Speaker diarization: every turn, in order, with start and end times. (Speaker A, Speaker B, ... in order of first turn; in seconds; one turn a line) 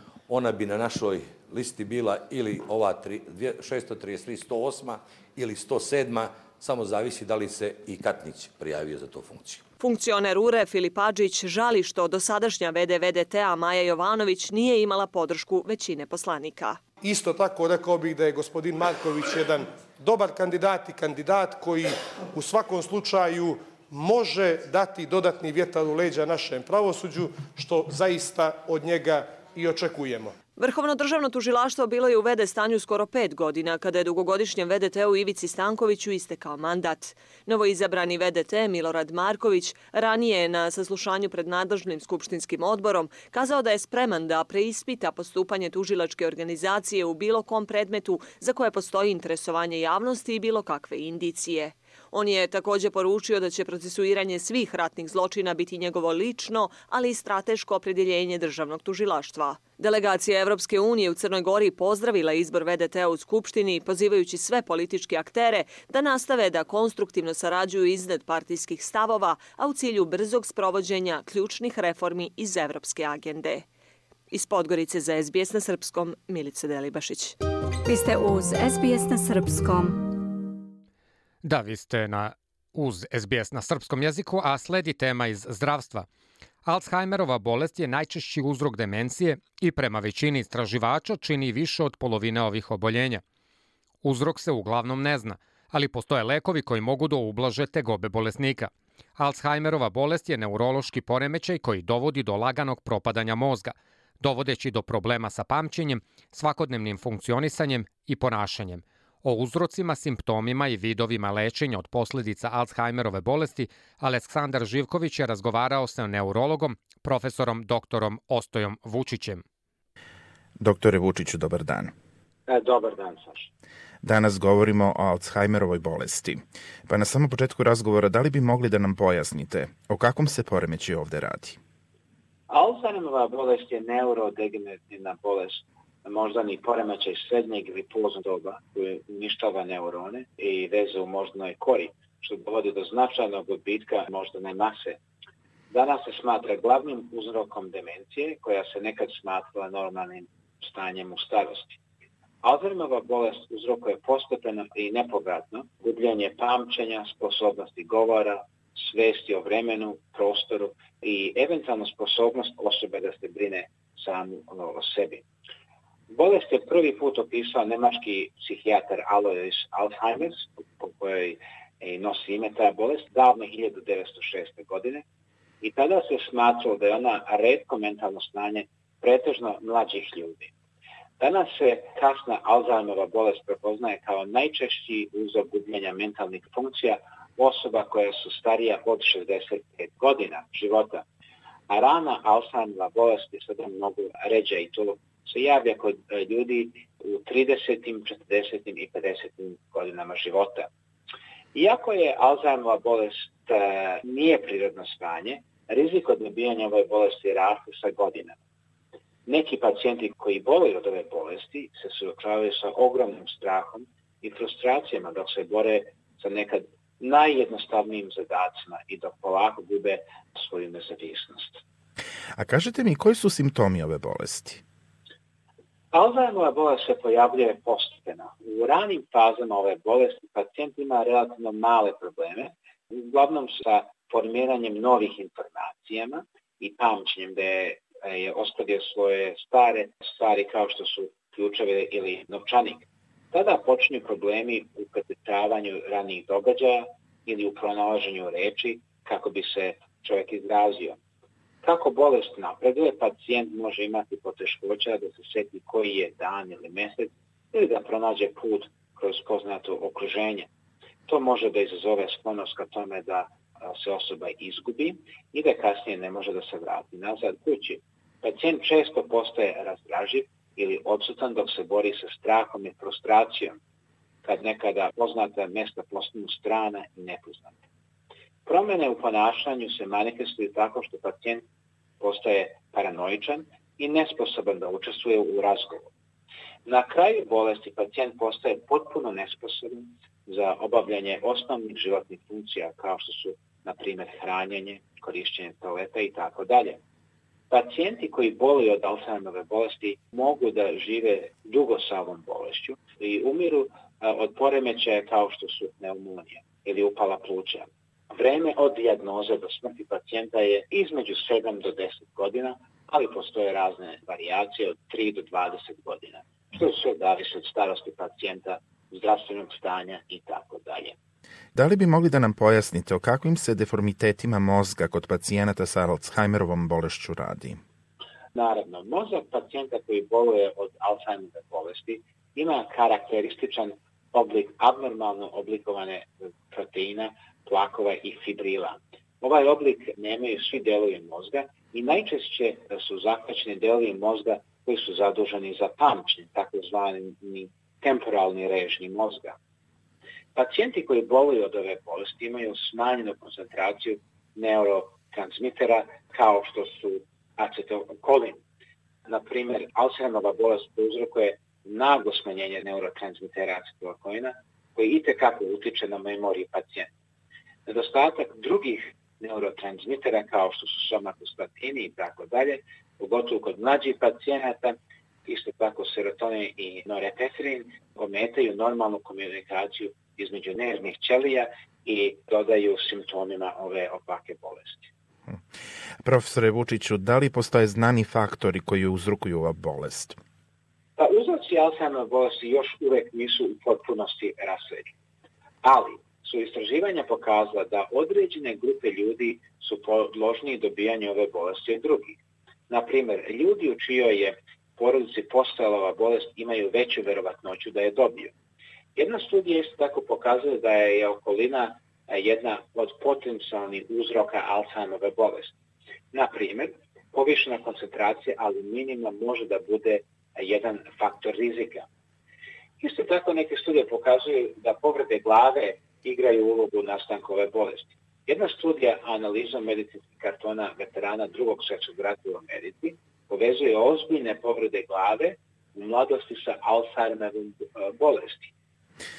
Speaker A: 0.3-9.6
Speaker B: 9.8-16.8
Speaker C: 17.0-30.3
Speaker B: 30.6-73.6
Speaker B: 74.3-77.3
Speaker D: 77.8-80.0
Speaker E: 81.4-86.1
Speaker E: 86.6-93.2
Speaker E: 94.0-119.4
Speaker F: 120.6-121.9
Speaker G: 122.5-123.5
Speaker F: 124.0-131.6
Speaker G: 132.5-145.0
Speaker G: 145.7-151.8
Speaker G: 152.4-165.2
Speaker G: 166.1-175.0
Speaker G: 175.6-180.5
Speaker G: 181.2-191.0
Speaker G: 191.7-200.7
Speaker G: 201.5-208.4
Speaker G: 209.2-221.6
Speaker F: 222.4-224.6
Speaker G: 225.9-251.0
Speaker G: 251.6-260.5
Speaker G: 261.1-273.6
Speaker G: 274.2-277.6
Speaker G: 278.4-281.4
Speaker G: 282.0-285.9
Speaker G: 286.6-296.8
Speaker G: 297.5-320.9
Speaker F: 321.5-327.6
Speaker G: 328.3-349.4
Speaker G: 350.3-358.4
Speaker G: 359.1-366.9
Speaker G: 367.7-384.9
Speaker F: 386.0-390.2
Speaker G: 391.0-394.9
Speaker G: 395.6-402.2
Speaker G: 402.7-408.3
Speaker G: 408.9-415.5
Speaker G: 416.1-421.9
Speaker G: 422.8-438.5